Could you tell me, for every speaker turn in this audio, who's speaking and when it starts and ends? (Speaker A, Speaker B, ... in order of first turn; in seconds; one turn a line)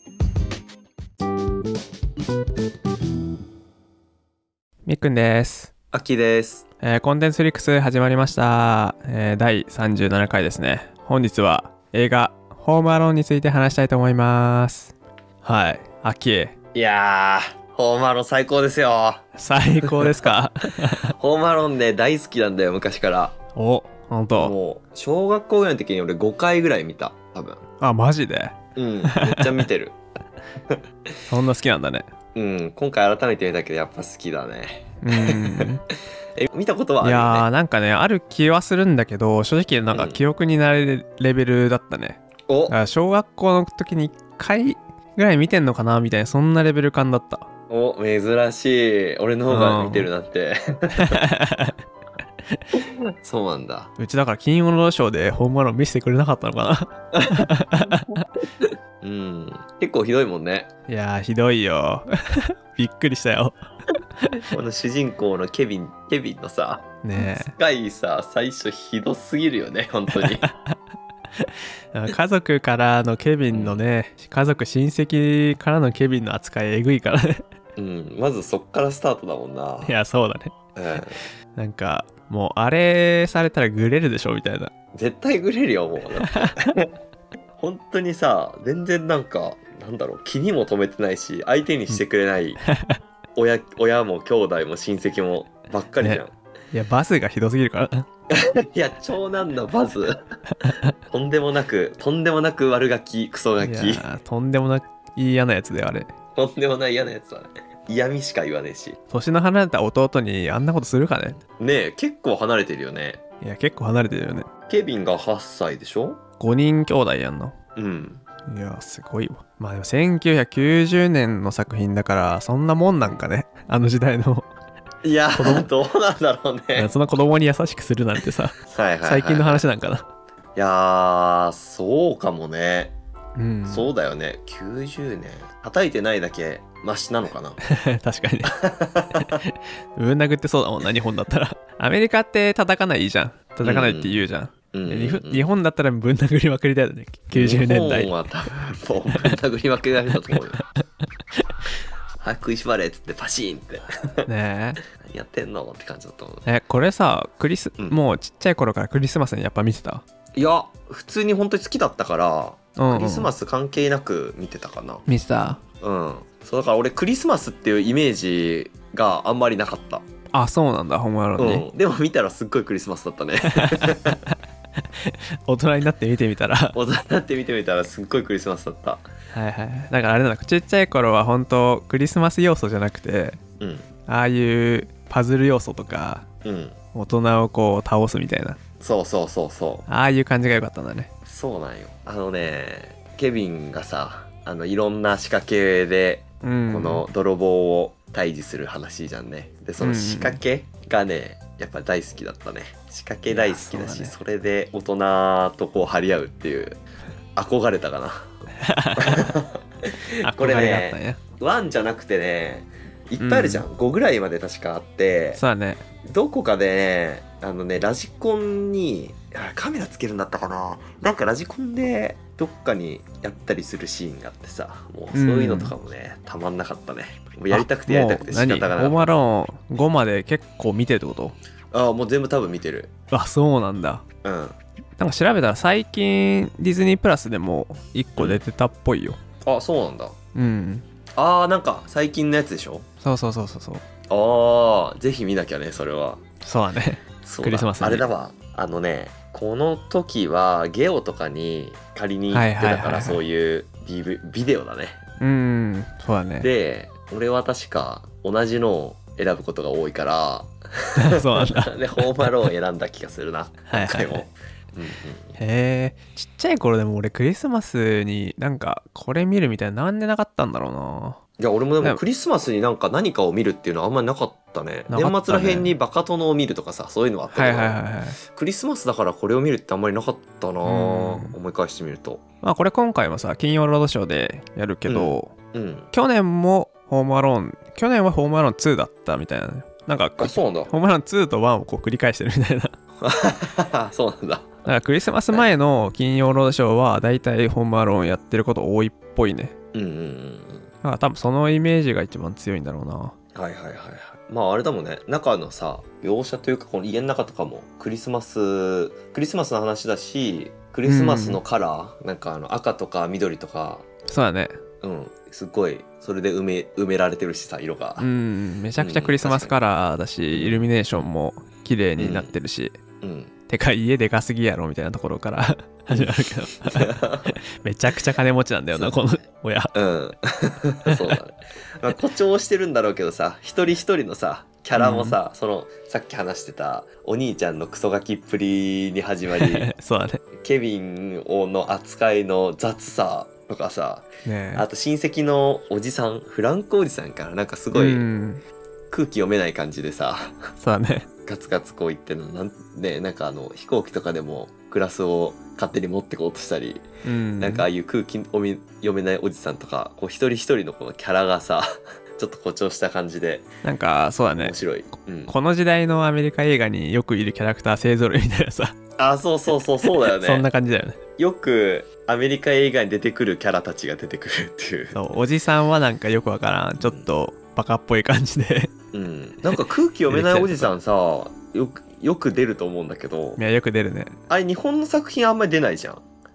Speaker A: 4.8-5.7
Speaker B: 5.9-6.6
Speaker A: 6.8-16.5
Speaker B: 16.7-20.4
Speaker A: 19.4-21.1
Speaker B: 21.1-23.4
Speaker A: 23.5-24.5
Speaker B: 24.3-27.6
Speaker A: 27.8-28.6
Speaker B: 28.8-29.9
Speaker A: 29.1-29.6
Speaker A: 31.3-32.1
Speaker B: 32.3-35.7
Speaker A: 35.0-35.8
Speaker B: 36.3-37.5
Speaker A: 37.0-47.5
Speaker B: 39.9-40.2
Speaker B: 42.5-42.7
Speaker B: 47.7-51.2
Speaker A: 49.5-50.1
Speaker A: 50.9-51.8
Speaker B: 52.7-53.9
Speaker A: 54.0-58.2
Speaker B: 57.1-57.5
Speaker B: 58.6-60.7
Speaker A: 60.9-63.6
Speaker B: 64.5-70.5
Speaker A: 67.0-67.5
Speaker A: 70.1-70.8
Speaker A: 71.4-77.4
Speaker B: 73.5-73.8
Speaker B: 77.8-79.9
Speaker A: 79.8-80.5
Speaker B: 80.8-81.2
Speaker A: 81.2-84.7
Speaker B: 84.9-86.9
Speaker A: 86.2-86.7
Speaker B: 87.6-92.6
Speaker A: 92.6-93.0
Speaker B: 93.3-96.3
Speaker A: 96.0-98.1
Speaker B: 98.3-100.2
Speaker A: 100.5-100.9
Speaker B: 101.1-104.0
Speaker A: 103.6-106.1
Speaker B: 106.3-109.0
Speaker A: 109.1-111.4
Speaker B: 111.6-113.2
Speaker A: 113.4-114.5
Speaker B: 114.7-116.2
Speaker A: 116.4-117.5
Speaker B: 117.8-118.2
Speaker A: 118.5-124.5
Speaker B: 125.0-126.9
Speaker A: 125.3-125.7
Speaker A: 126.7-130.1
Speaker B: 128.7-129.6
Speaker B: 130.6-132.9
Speaker A: 133.3-133.9
Speaker B: 133.7-137.6
Speaker A: 137.6-138.5
Speaker B: 138.4-139.4
Speaker A: 139.1-148.1
Speaker B: 143.6-145.4
Speaker B: 147.3-150.6
Speaker A: 150.6-150.8
Speaker B: 152.2-154.3
Speaker A: 154.2-154.8
Speaker B: 154.9-156.4
Speaker A: 156.4-160.0
Speaker B: 160.3-165.0
Speaker A: 162.8-163.3
Speaker A: 165.1-165.6
Speaker B: 165.8-170.0
Speaker A: 170.3-171.7
Speaker B: 171.4-174.2
Speaker A: 173.5-176.8
Speaker B: 176.7-179.1
Speaker A: 179.3-183.4
Speaker B: 183.6-183.9
Speaker A: 184.1-186.2
Speaker B: 186.4-186.8
Speaker A: 186.9-188.6
Speaker B: 188.8-189.8
Speaker A: 189.9-191.1
Speaker B: 191.2-206.8
Speaker A: 196.4-197.1
Speaker A: 199.8-200.4
Speaker A: 203.3-204.1
Speaker B: 207.3-208.3
Speaker A: 208.6-209.3
Speaker B: 209.0-215.4
Speaker A: 210.2-211.2
Speaker A: 213.2-213.6
Speaker A: 215.3-215.8
Speaker B: 216.0-229.1
Speaker A: 225.1-225.7
Speaker A: 227.5-231.3
Speaker B: 231.7-232.9
Speaker A: 233.1-234.0
Speaker B: 234.2-234.6
Speaker A: 235.0-239.2
Speaker B: 238.2-238.4
Speaker B: 239.4-240.2
Speaker A: 240.3-240.8
Speaker B: 241.2-242.8
Speaker A: 243.0-243.8
Speaker B: 244.1-246.2
Speaker A: 246.4-248.1
Speaker B: 247.2-255.0
Speaker A: 252.3-253.2
Speaker A: 255.2-256.5
Speaker B: 256.4-265.4
Speaker A: 260.9-262.3
Speaker A: 263.7-264.2
Speaker A: 265.4-271.2
Speaker B: 271.4-282.2
Speaker A: 274.9-275.7
Speaker A: 277.3-278.2
Speaker A: 280.6-281.4
Speaker A: 282.4-285.3
Speaker B: 284.9-285.9
Speaker A: 285.9-292.7
Speaker B: 290.2-290.7
Speaker B: 293.0-294.6
Speaker A: 294.6-299.5
Speaker B: 299.7-300.7
Speaker A: 300.8-303.1
Speaker B: 303.3-313.9
Speaker A: 310.8-311.4
Speaker A: 314.1-314.6
Speaker B: 314.8-318.1
Speaker A: 318.0-322.7
Speaker B: 318.8-319.6
Speaker B: 320.3-321.1
Speaker B: 322.0-322.3
Speaker B: 323.0-323.3
Speaker A: 323.5-329.7
Speaker B: 325.9-327.3
Speaker B: 329.7-339.7
Speaker A: 330.9-331.2
Speaker A: 334.8-335.2
Speaker A: 339.4-340.2
Speaker B: 340.4-348.0
Speaker A: 344.2-344.6
Speaker A: 347.7-348.4
Speaker B: 348.9-350.4
Speaker A: 350.6-351.1
Speaker B: 351.2-356.8
Speaker A: 357.0-357.7
Speaker B: 357.4-363.5
Speaker A: 363.6-364.6
Speaker B: 364.4-365.3
Speaker A: 365.3-368.8
Speaker B: 369.0-370.4
Speaker A: 370.0-371.0
Speaker B: 371.2-375.0
Speaker A: 374.9-378.7
Speaker B: 376.8-377.1
Speaker B: 378.9-383.4
Speaker A: 380.1-380.7
Speaker A: 383.4-384.2
Speaker B: 384.3-386.0